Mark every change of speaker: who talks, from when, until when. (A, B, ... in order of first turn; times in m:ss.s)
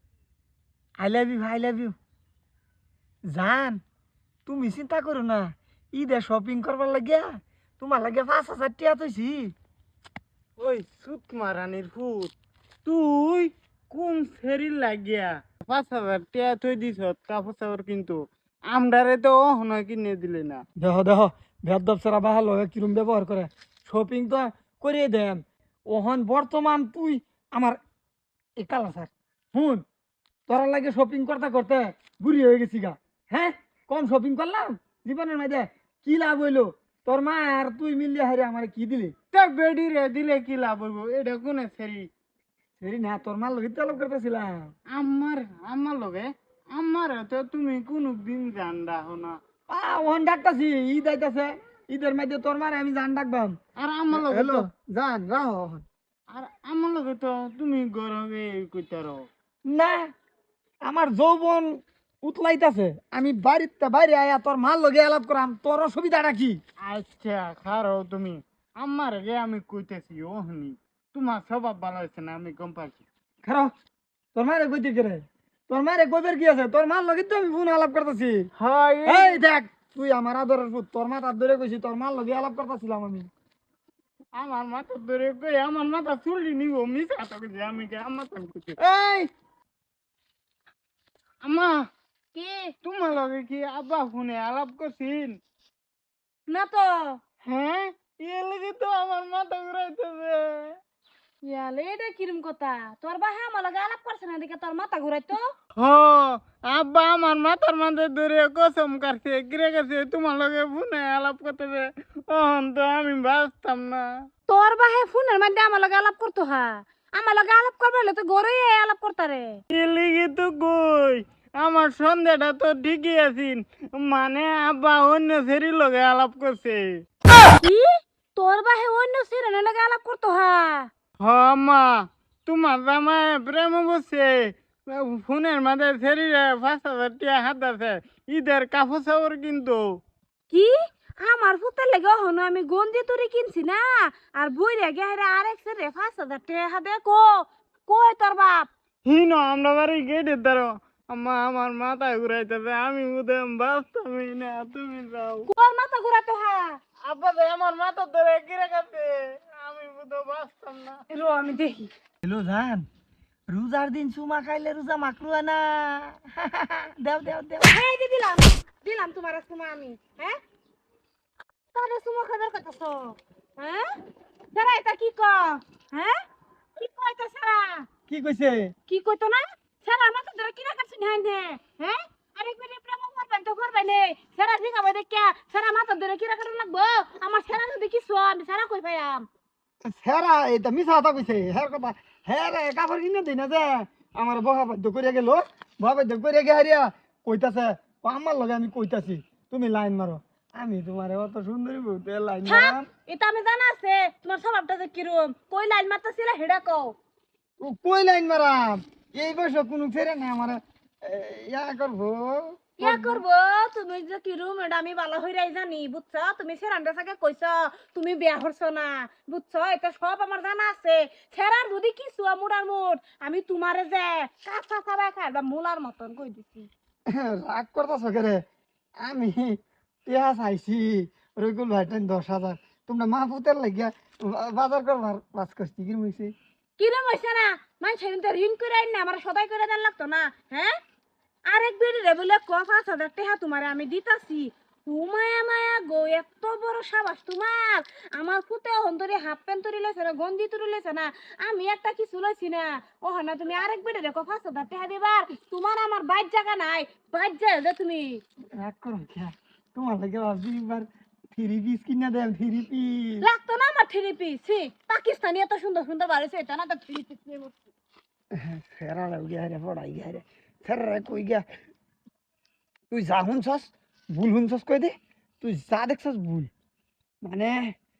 0:01.0-0:02.0 A
0:03.3-0:03.8 A
0:04.5-0:09.5 A
0:10.6-0:12.3 B
0:12.8-0:20.6 B
0:20.8-0:27.8 A
0:28.6-0:29.8 A
0:30.5-0:39.1 A
0:39.3-0:42.1 B
0:42.8-0:44.7 A
0:44.9-0:49.4 B
0:49.7-0:53.6 A
0:53.8-0:54.7 B
0:54.1-0:55.8 A
0:56.3-0:59.3 B
0:59.7-1:00.1 A
1:00.8-1:06.6 A
1:06.8-1:13.0 B
1:13.4-1:13.7 A
1:14.4-1:18.5 A
1:18.6-1:19.4 B
1:19.1-1:23.3 A
1:24.4-1:28.8 B
1:28.8-1:29.3 A
1:31.4-1:31.8 B
1:32.3-1:32.7 C
1:32.8-1:35.4 B
1:36.5-1:37.2 C
1:37.4-1:40.8 B
1:41.4-1:45.5 C
1:45.8-1:54.1 B
1:54.5-1:59.6 C
1:59.7-2:06.8 B
2:07.6-2:10.9 C
2:11.2-2:19.8 B
2:20.5-2:28.7 C
2:29.1-2:35.5 B
2:35.5-2:36.8 C
2:37.0-2:41.0 B
2:41.1-2:41.9 C
2:42.2-2:42.9 A
2:43.5-2:47.8 A
2:47.6-2:50.4 C
2:51.7-2:53.9 C
2:54.5-2:56.2 C
2:56.8-2:57.9 C
2:58.1-2:58.7 A
2:58.9-3:09.2 C
3:09.9-3:22.9 A
3:22.5-3:27.0 C
3:27.6-3:33.2 A
3:32.8-3:46.7 C
3:47.1-3:48.4 A
3:49.0-3:56.3 A
3:56.8-4:00.7 C
4:01.5-4:18.2 C
4:18.6-4:23.3 A
4:23.2-4:27.6 C
4:28.3-4:31.4 A
4:32.9-4:36.5 A
4:37.2-4:37.8 A